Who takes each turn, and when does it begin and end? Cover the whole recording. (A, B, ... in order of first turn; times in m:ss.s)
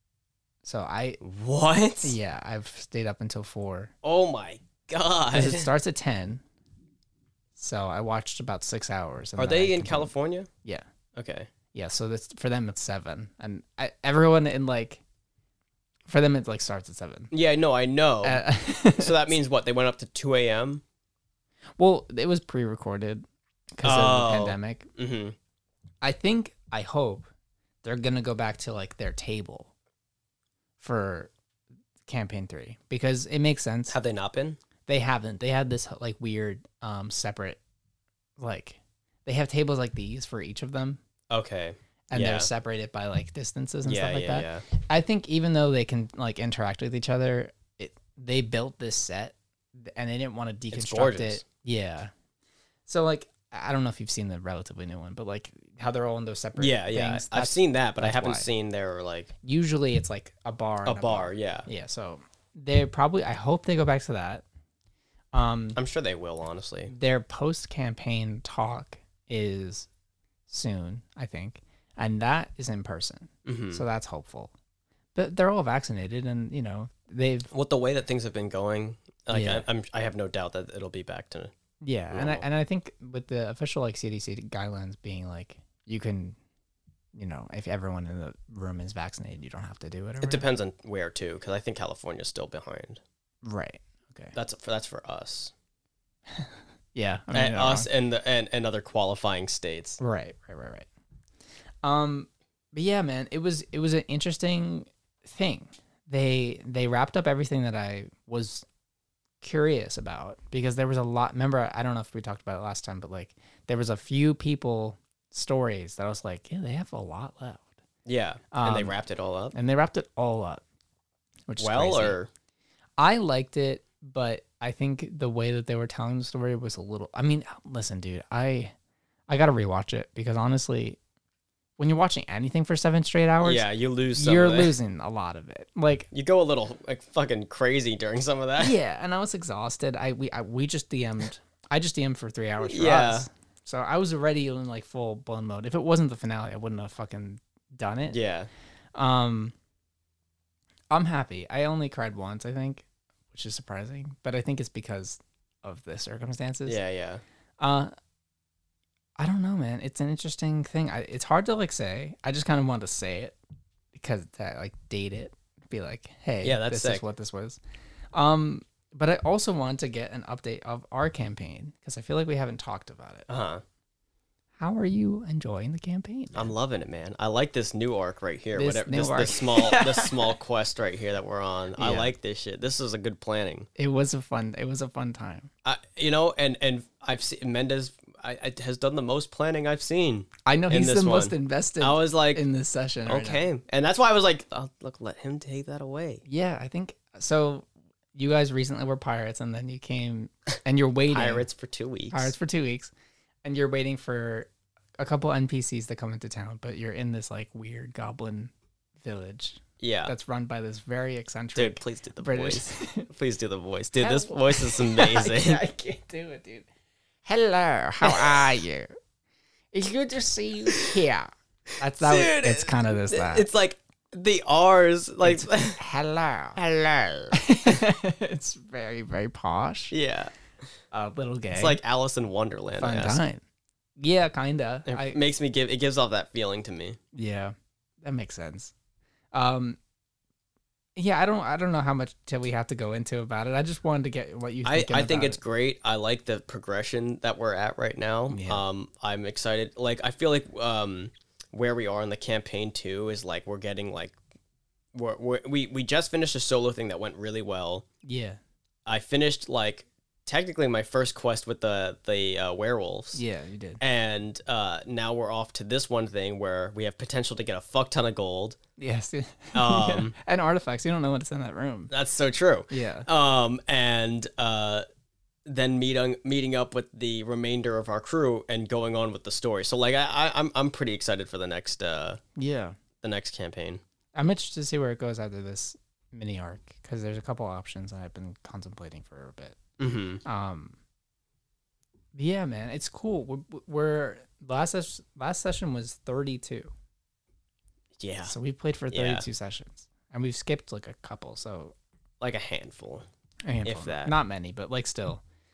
0:00.6-0:01.2 A
0:01.2-0:02.2 B
0:02.0-0:03.9 A
0:04.0-0:05.7 B
0:05.3-0:06.4 A
0:07.6-0:10.1 A
0:09.4-0:10.5 B
0:11.1-0:11.5 B
0:11.7-0:15.0 A
0:16.1-0:17.3 A
0:17.3-0:18.4 B
0:18.2-0:19.2 A
0:19.0-0:20.8 B
0:21.8-0:24.9 A
0:23.8-0:25.4 B
0:26.0-0:27.3 A
0:27.8-0:29.7 A
0:30.8-0:31.3 A
0:32.1-0:34.0 A
0:33.9-0:34.6 B
0:34.8-0:37.6 A
0:38.4-0:41.0 A
0:41.3-0:42.5 B
0:42.1-0:52.1 A
0:43.8-0:44.6 B
0:50.7-0:51.4 B
0:52.8-0:58.5 A
0:56.6-0:59.3 B
0:59.4-1:04.4 A
1:00.8-1:01.7 B
1:05.3-1:05.8 A
1:05.8-1:06.9 B
1:06.9-1:09.9 A
1:10.5-1:14.5 A
1:13.4-1:13.8 B
1:15.1-1:17.5 A
1:17.5-1:21.5 B
1:19.3-1:19.7 A
1:21.8-1:26.4 A
1:22.1-1:22.4 B
1:27.1-1:30.5 A
1:30.2-1:33.0 B
1:33.4-1:34.3 A
1:34.3-1:35.5 B
1:36.3-1:37.9 A
1:37.3-1:40.0 B
1:40.0-1:40.9 A
1:41.8-1:48.6 A
1:49.4-1:57.7 A
1:58.0-1:59.5 B
1:58.5-1:59.0 A
1:59.5-2:00.6 A
2:01.5-2:02.2 A
2:01.6-2:02.3 B
2:03.0-2:08.7 A
2:09.3-2:11.0 A
2:11.8-2:13.6 A
2:13.4-2:14.7 B
2:14.2-2:16.1 A
2:16.1-2:18.7 B
2:18.6-2:28.2 A
2:22.6-2:23.3 B
2:28.1-2:28.5 B
2:28.9-2:29.5 A
2:30.9-2:36.8 A
2:36.6-2:37.2 B
2:37.6-2:37.9 A
2:39.2-2:43.4 A
2:43.9-2:47.6 A
2:46.4-2:47.0 B
2:48.1-2:53.3 A
2:53.3-2:53.6 B
2:54.6-2:56.5 A
2:56.3-3:03.7 B
2:58.5-3:00.3 A
3:01.8-3:02.1 A
3:03.8-3:05.5 A
3:05.6-3:12.4 B
3:10.4-3:13.4 A
3:13.0-3:16.2 B
3:16.2-3:21.4 A
3:21.1-3:22.3 B
3:22.1-3:22.9 A
3:23.4-3:33.1 A
3:29.8-3:30.1 B
3:31.6-3:35.6 B
3:34.0-3:36.7 A
3:37.2-3:38.9 A
3:38.0-3:38.4 B
3:39.7-3:43.5 A
3:42.0-3:45.8 B
3:45.2-3:46.6 A
3:46.6-3:47.8 B
3:47.3-3:50.0 A
3:49.9-3:50.3 B
3:50.9-3:51.8 A
3:51.5-3:53.2 B
3:52.8-3:53.4 A
3:54.0-3:55.2 A
3:54.8-3:57.0 B
3:57.1-3:58.7 A
3:59.3-3:59.8 A
4:01.0-4:05.4 A
4:04.6-4:14.2 B
4:08.3-4:08.6 A
4:14.9-4:17.8 B
4:18.0-4:18.4 A
4:18.8-4:23.2 B
4:23.1-4:23.8 A
4:23.8-4:28.6 B
4:28.8-4:31.9 A
4:29.5-4:30.1 B
4:31.9-4:34.8 B
4:32.7-4:33.1 A
4:35.4-4:42.2 B
4:42.4-4:42.8 A
4:43.0-4:43.8 B
4:44.1-4:49.6 A
4:49.8-4:50.2 B
4:50.2-4:50.8 A
4:52.1-4:56.7 A
4:58.0-4:58.3 B
4:58.2-5:01.7 A
4:58.9-4:59.2 B
5:02.2-5:03.0 B
5:03.4-5:05.2 A
5:03.6-5:04.1 B